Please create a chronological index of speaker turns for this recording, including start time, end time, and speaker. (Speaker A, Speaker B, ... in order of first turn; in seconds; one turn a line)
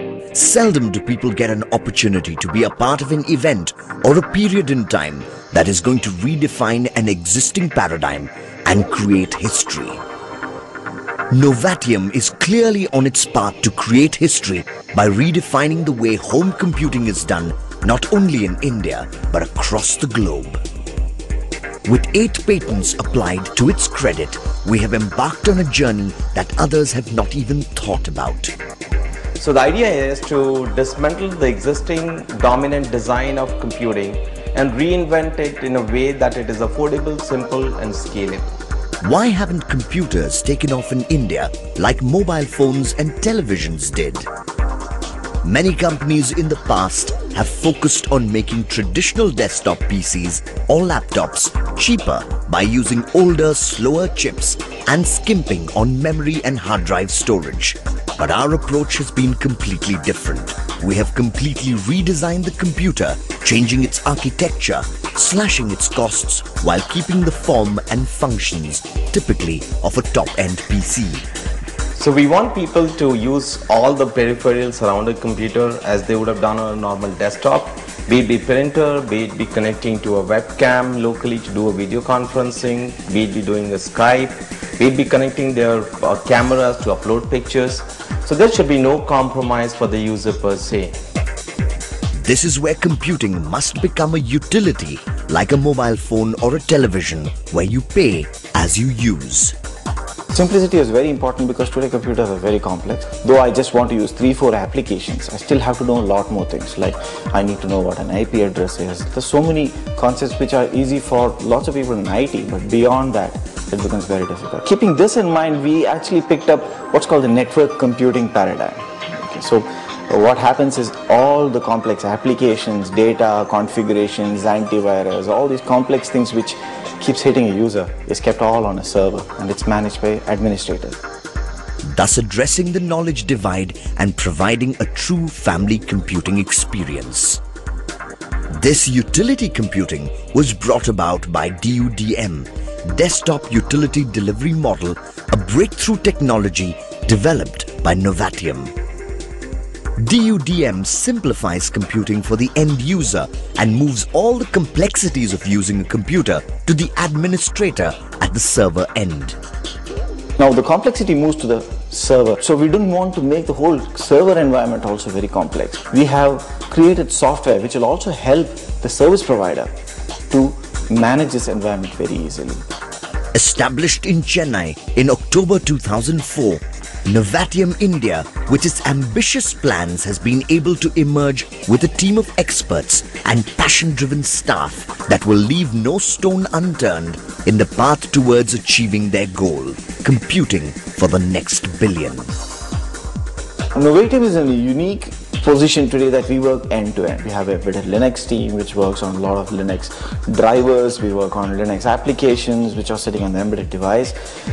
Speaker A: 0.3-10.0
Speaker A: 11.3-20.6
Speaker A: 21.9-28.5
Speaker B: 29.4-38.5
Speaker A: 39.0-44.3
Speaker A: 45.4-71.2
Speaker B: 71.9-91.0
Speaker A: 92.2-99.5
Speaker C: 100.3-131.0
Speaker A: 131.8-137.4
Speaker A: 138.5-148.7
Speaker A: 150.0-159.4
Speaker C: 160.4-169.8
Speaker C: 170.3-172.6
Speaker A: 173.3-192.3
Speaker C: 193.7-204.1